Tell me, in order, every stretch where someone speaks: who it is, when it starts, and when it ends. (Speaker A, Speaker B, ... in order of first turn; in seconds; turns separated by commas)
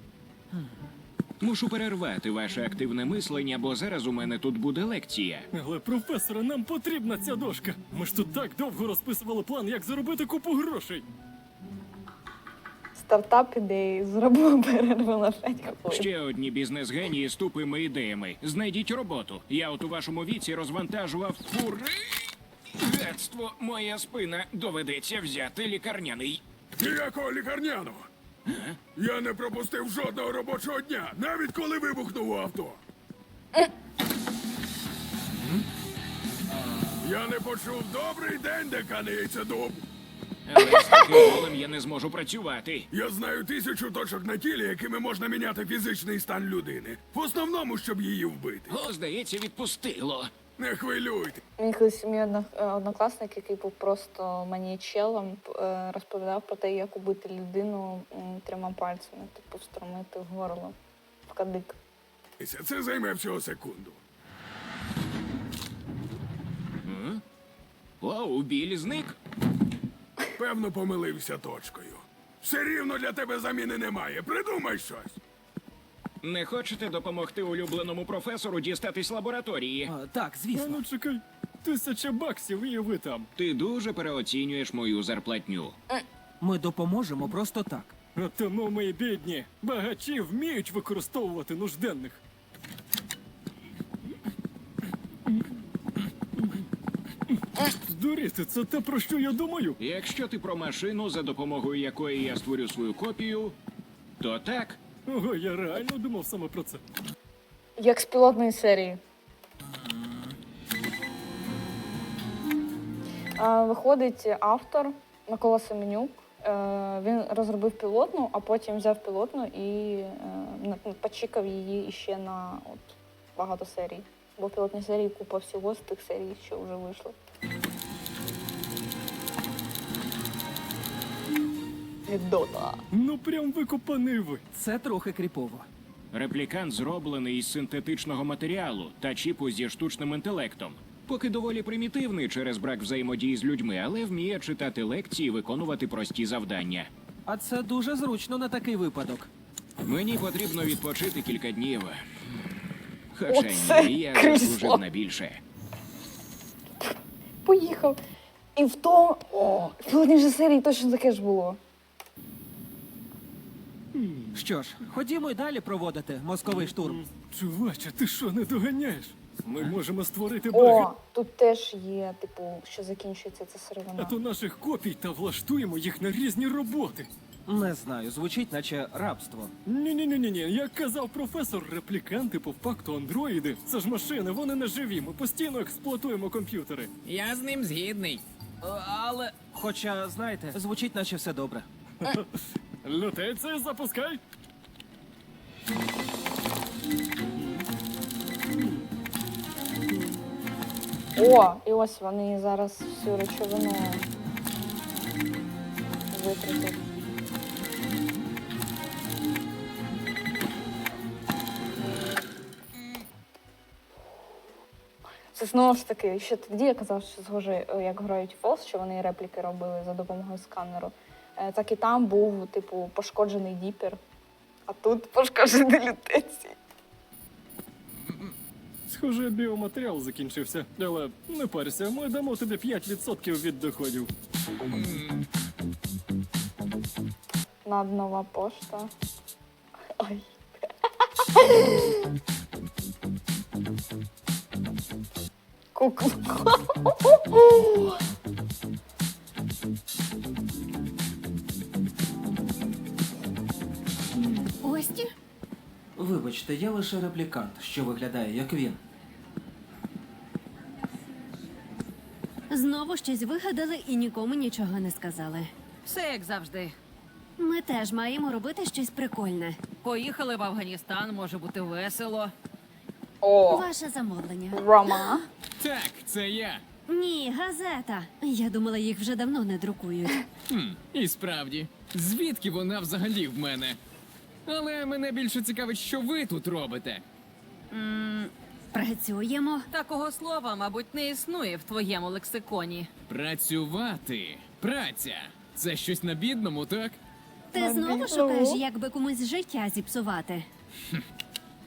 Speaker A: 1.4-5.5, Speaker B: 5.5-11.1, Speaker C: 13.0-16.1, Speaker A: 15.9-26.4, Speaker D: 26.8-28.1, Speaker A: 28.5-28.8, Speaker D: 29.0-32.8, Speaker D: 37.0-39.9, Speaker A: 40.5-42.9, Speaker D: 42.9-48.8, Speaker A: 48.7-50.3, Speaker D: 50.6-51.4, Speaker C: 51.6-61.8, Speaker D: 62.4-64.0, Speaker A: 66.8-67.2, Speaker A: 68.0-69.2, Speaker D: 70.4-75.2, Speaker A: 76.2-79.9, Speaker E: 79.9-80.8, Speaker B: 80.5-83.3, Speaker A: 83.4-85.8, Speaker E: 86.4-87.9, Speaker B: 88.2-92.2, Speaker B: 97.7-99.8, Speaker A: 99.8-103.6, Speaker A: 104.2-104.8, Speaker B: 105.1-106.8, Speaker C: 107.8-109.0, Speaker C: 113.4-127.2, Speaker C: 132.1-132.8, Speaker B: 132.9-134.4, Speaker E: 134.5-135.7, Speaker A: 136.1-146.9, Speaker E: 147.3-149.3, Speaker A: 149.8-152.0, Speaker A: 153.1-155.4, Speaker C: 153.3-154.8, Speaker C: 157.4-158.0, Speaker C: 158.6-161.6, Speaker B: 163.9-164.4, Speaker E: 164.3-167.0, Speaker B: 166.5-170.9, Speaker C: 170.5-174.2, Speaker B: 174.0-177.1, Speaker E: 177.5-179.5, Speaker B: 179.7-186.9, Speaker F: 187.1-188.2, Speaker E: 188.6-191.7, Speaker B: 192.0-194.2, Speaker B: 197.4-197.6, Speaker B: 199.9-200.2, Speaker C: 201.2-204.1, Speaker C: 206.1-206.8, Speaker C: 215.3-224.0, Speaker C: 224.7-226.6, Speaker B: 228.9-234.1, Speaker F: 234.7-235.2, Speaker C: 237.7-238.9, Speaker C: 240.0-240.3, Speaker C: 241.4-242.0, Speaker C: 245.8-247.9, Speaker G: 254.5-255.1, Speaker E: 255.9-258.8, Speaker G: 262.5-265.5, Speaker H: 265.9-266.8, Speaker G: 267.4-269.6, Speaker H: 269.8-272.3, Speaker C: 273.2-273.7, Speaker G: 273.5-275.2, Speaker C: 274.5-275.2, Speaker F: 275.6-276.6, Speaker G: 276.9-280.2, Speaker F: 280.5-283.8, Speaker F: 284.5-287.0, Speaker G: 287.7-289.7, Speaker H: 289.7-292.9, Speaker F: 293.1-297.0, Speaker G: 297.5-300.5, Speaker C: 297.5-298.6